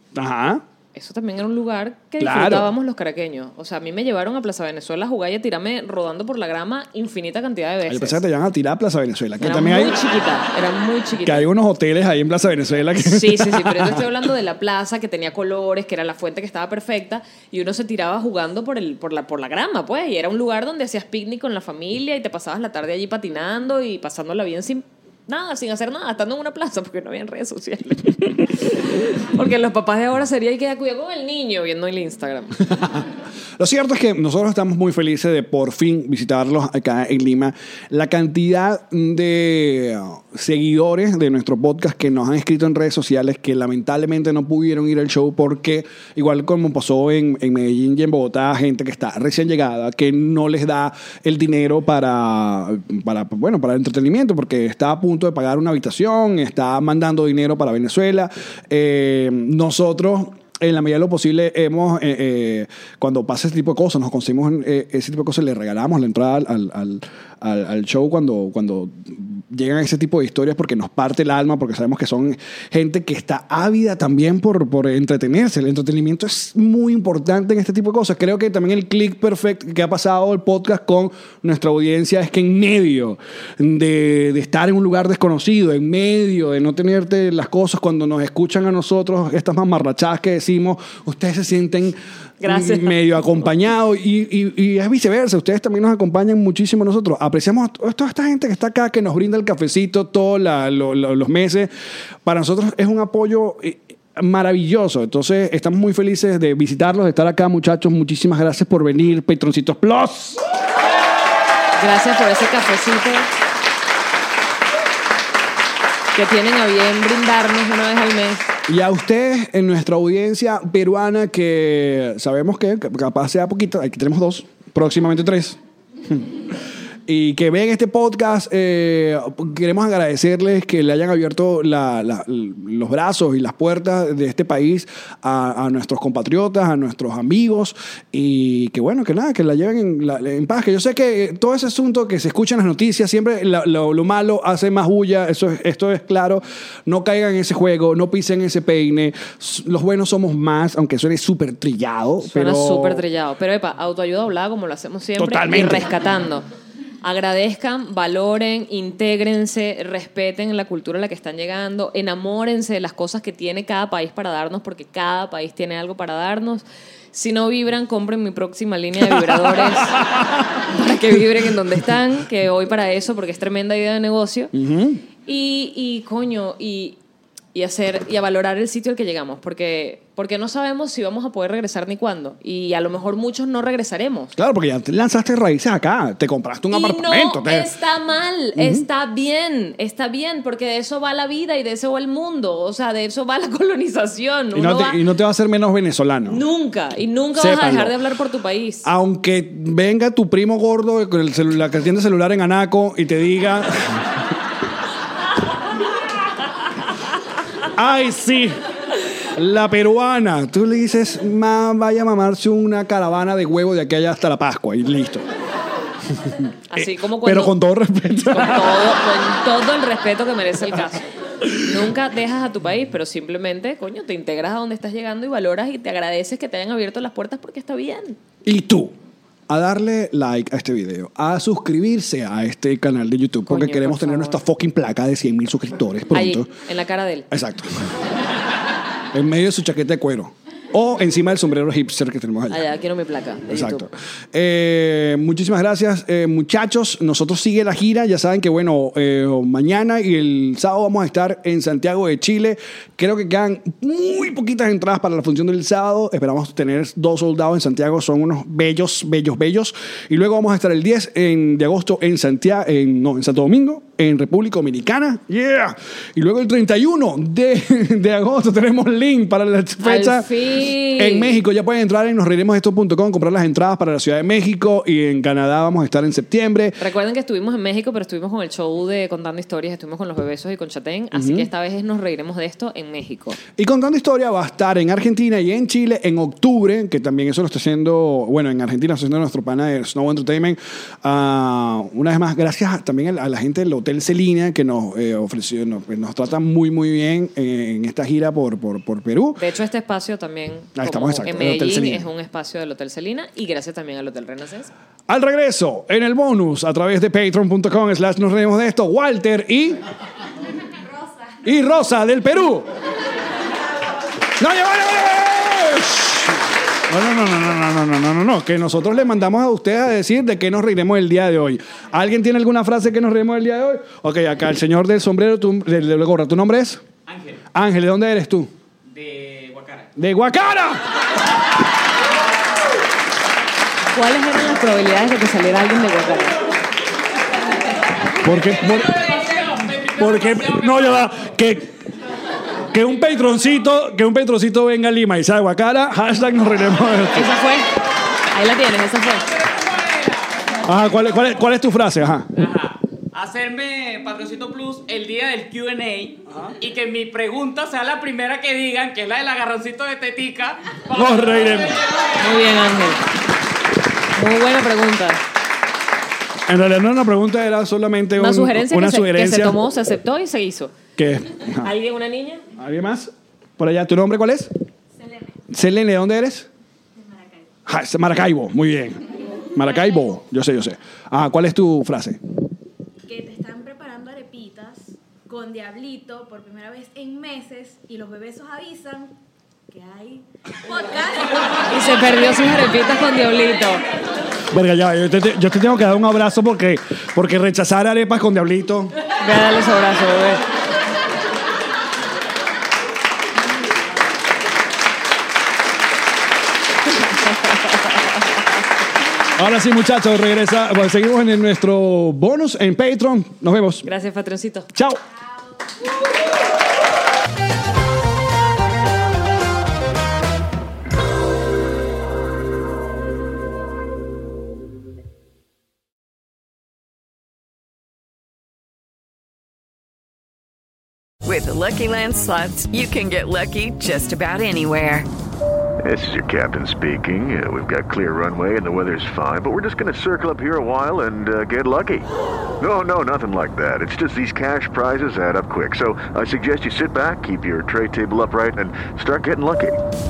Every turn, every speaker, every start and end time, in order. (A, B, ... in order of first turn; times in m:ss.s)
0:00.1-0:00.6 A
0:00.9-0:08.2 B
0:02.2-0:02.7 A
0:07.9-0:10.0 A
0:09.4-0:11.5 B
0:11.2-0:14.0 A
0:13.0-0:32.6 B
0:33.6-1:41.7 A
1:32.4-1:33.4 B
1:42.2-1:50.4 A
1:51.8-1:53.3 B
1:56.1-1:58.5 B
1:58.7-2:05.6 A
2:07.1-2:33.0 A
2:32.2-2:36.5 B
2:35.2-2:35.8 A
2:37.0-2:54.5 B
2:54.5-2:55.0 A
2:55.2-2:57.0 B
2:57.5-3:04.3 B
3:04.4-3:07.7 A
3:06.7-3:15.0 B
3:08.6-3:08.8 A
3:14.5-3:16.4 A
3:16.2-3:18.9 B
3:17.4-3:18.0 A
3:18.8-3:24.1 A
3:27.7-3:28.6 A
3:29.3-3:35.2 A
3:36.2-3:38.9 A
3:36.7-3:37.6 B
3:38.1-3:41.0 B
3:41.6-3:48.2 B
3:48.4-3:48.9 A
3:49.5-3:56.5 A
3:53.4-3:54.4 B
3:56.1-3:57.3 B
3:57.3-3:57.9 A
3:59.1-4:02.6 A
4:02.5-4:03.9 B
4:03.5-4:36.8 A
4:29.8-4:31.4 B
4:36.8-4:43.4 B
4:41.1-4:41.5 A
4:43.6-4:59.4 A
4:59.4-5:04.7 B
5:00.8-5:02.1 A
5:05.1-5:09.8 A
5:11.4-5:12.7 A
5:14.4-5:26.8 A
5:27.1-5:27.4 C
5:27.5-5:28.5 A
5:28.9-5:29.9 C
5:30.0-5:30.9 A
5:33.9-5:36.4 B
5:38.2-5:39.0 A
5:38.8-5:41.0 C
5:40.0-5:41.7 A
5:42.7-5:47.3 A
5:47.1-5:47.7 B
5:48.3-5:49.3 B
5:49.3-5:50.5 C
5:50.6-5:52.3 A
5:52.4-6:02.1 C
6:00.9-6:01.8 A
6:02.2-6:03.1 B
6:04.1-6:05.2 B
6:06.5-6:09.6 A
6:08.2-6:10.7 B
6:11.0-6:11.7 A
6:11.6-6:12.4 B
6:12.6-6:14.5 A
6:15.5-6:16.5 A
6:17.0-6:17.4 D
6:17.6-6:22.2 A
6:23.1-6:29.1 D
6:29.7-6:31.6 D
6:31.6-6:33.8 B
6:34.5-6:38.9 A
6:39.2-6:40.4 B
6:49.3-6:53.8 A
6:53.8-6:54.7 B
6:54.7-6:55.0 A
7:11.2-7:15.1 E
7:15.8-7:22.1 F
7:22.6-7:29.8 F